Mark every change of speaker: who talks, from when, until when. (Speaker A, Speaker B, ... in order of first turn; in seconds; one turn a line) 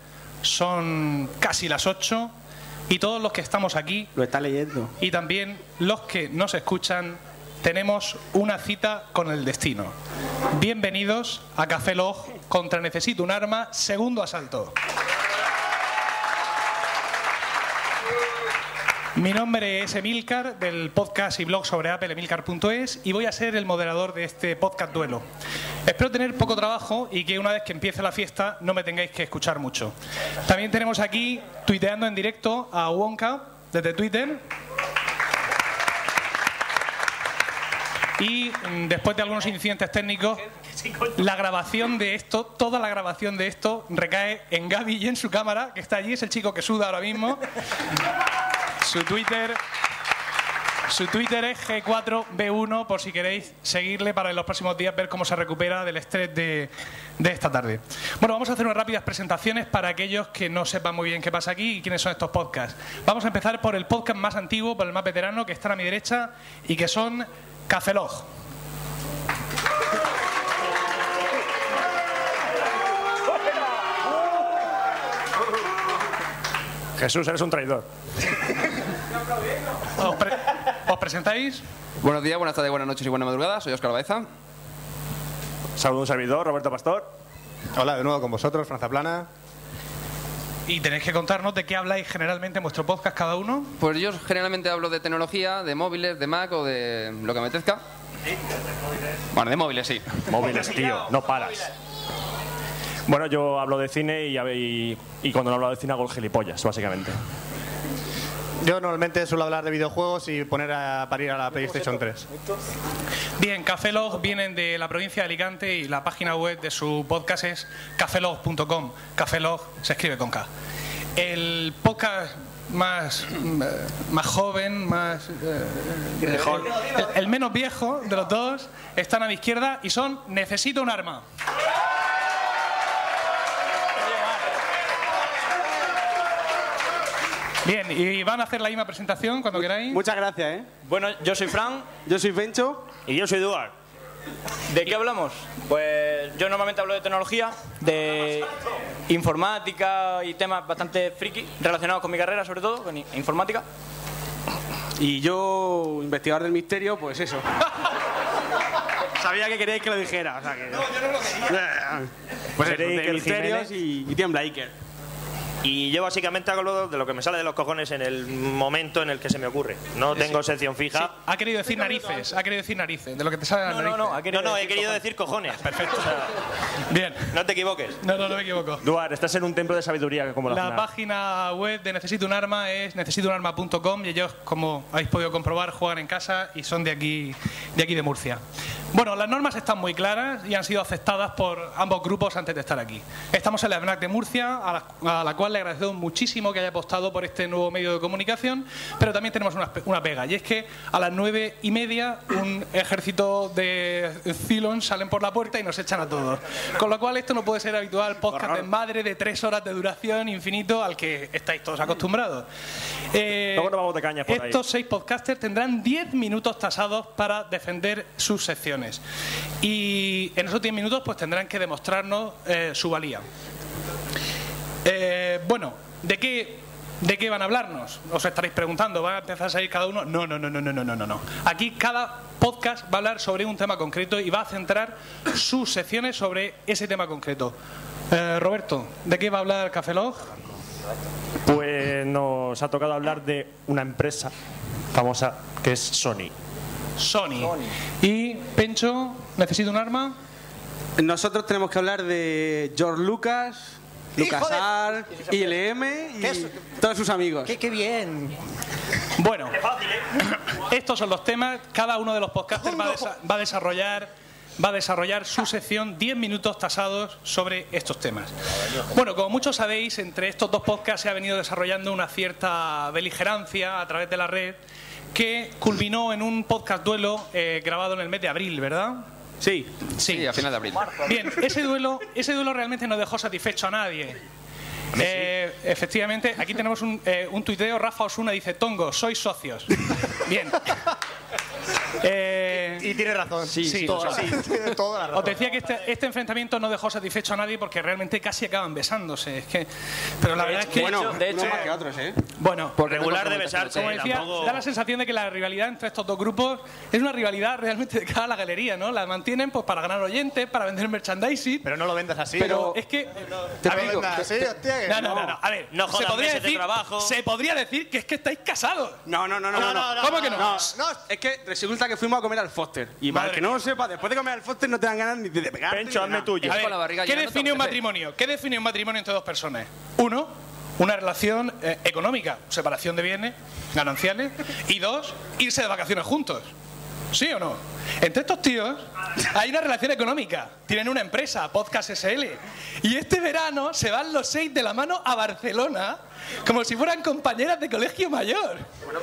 Speaker A: 0.4-2.4
Speaker A: 2.9-4.1
Speaker B: 4.2-4.9
Speaker A: 5.0-9.9
Speaker A: 10.5-14.8
Speaker A: 19.2-25.2
Speaker A: 25.9-34.4
Speaker A: 38.2-40.4
Speaker A: 41.1-47.5
Speaker A: 48.8-49.6
Speaker A: 50.9-68.3
Speaker C: 77.0-77.9
Speaker A: 80.0-81.6
Speaker D: 82.0-84.3
Speaker C: 85.8-87.1
Speaker E: 87.8-89.3
Speaker A: 90.7-93.8
Speaker D: 93.8-97.8
Speaker D: 99.3-100.3
Speaker C: 100.3-101.7
Speaker C: 103.1-107.2
Speaker E: 108.6-112.2
Speaker A: 113.4-120.5
Speaker A: 121.2-131.2
Speaker A: 137.7-140.0
Speaker B: 139.9-140.7
Speaker F: 140.8-142.0
Speaker B: 142.0-142.9
Speaker G: 143.1-143.7
Speaker F: 144.7-148.6
Speaker F: 149.1-153.7
Speaker B: 155.0-157.4
Speaker B: 159.2-164.7
Speaker C: 162.7-163.6
Speaker G: 163.1-163.5
Speaker G: 165.6-171.1
Speaker A: 170.9-174.2
Speaker F: 173.7-175.0
Speaker G: 174.3-176.3
Speaker A: 175.6-176.2
Speaker A: 176.9-177.3
Speaker G: 177.3-178.0
Speaker A: 178.0-178.8
Speaker C: 178.8-180.8
Speaker A: 180.5-188.4
Speaker A: 188.9-212.5
Speaker B: 208.3-208.7
Speaker A: 213.1-219.0
Speaker C: 213.6-214.6
Speaker A: 219.6-223.2
Speaker A: 224.8-237.6
Speaker A: 238.1-240.3
Speaker C: 241.4-244.3
Speaker C: 244.9-246.3
Speaker A: 247.0-250.2
Speaker B: 251.0-257.5
Speaker E: 254.2-254.7
Speaker E: 256.2-256.5
Speaker E: 257.5-258.4
Speaker A: 259.2-259.6
Speaker G: 259.6-260.0
Speaker A: 260.5-268.3
Speaker A: 268.9-274.6
Speaker A: 275.1-279.1
Speaker B: 279.4-279.7
Speaker A: 280.0-280.3
Speaker D: 280.1-280.9
Speaker A: 281.0-284.2
Speaker A: 284.9-290.8
Speaker A: 292.0-292.9
Speaker E: 292.8-295.4
Speaker D: 293.5-294.4
Speaker A: 293.6-294.4
Speaker A: 295.1-299.7
Speaker A: 300.2-301.2
Speaker B: 300.6-302.2
Speaker F: 300.7-301.7
Speaker A: 302.4-302.8
Speaker D: 302.8-304.2
Speaker G: 302.8-304.6
Speaker A: 303.7-311.7
Speaker E: 311.6-312.6
Speaker B: 312.4-312.8
Speaker A: 312.4-319.0
Speaker B: 313.6-314.3
Speaker E: 313.7-315.1
Speaker B: 315.0-315.3
Speaker G: 315.7-317.1
Speaker B: 319.1-326.4
Speaker E: 319.5-321.0
Speaker A: 319.5-320.8
Speaker A: 323.1-323.5
Speaker C: 325.7-326.5
Speaker D: 326.4-327.8
Speaker A: 326.4-336.5
Speaker A: 337.1-348.7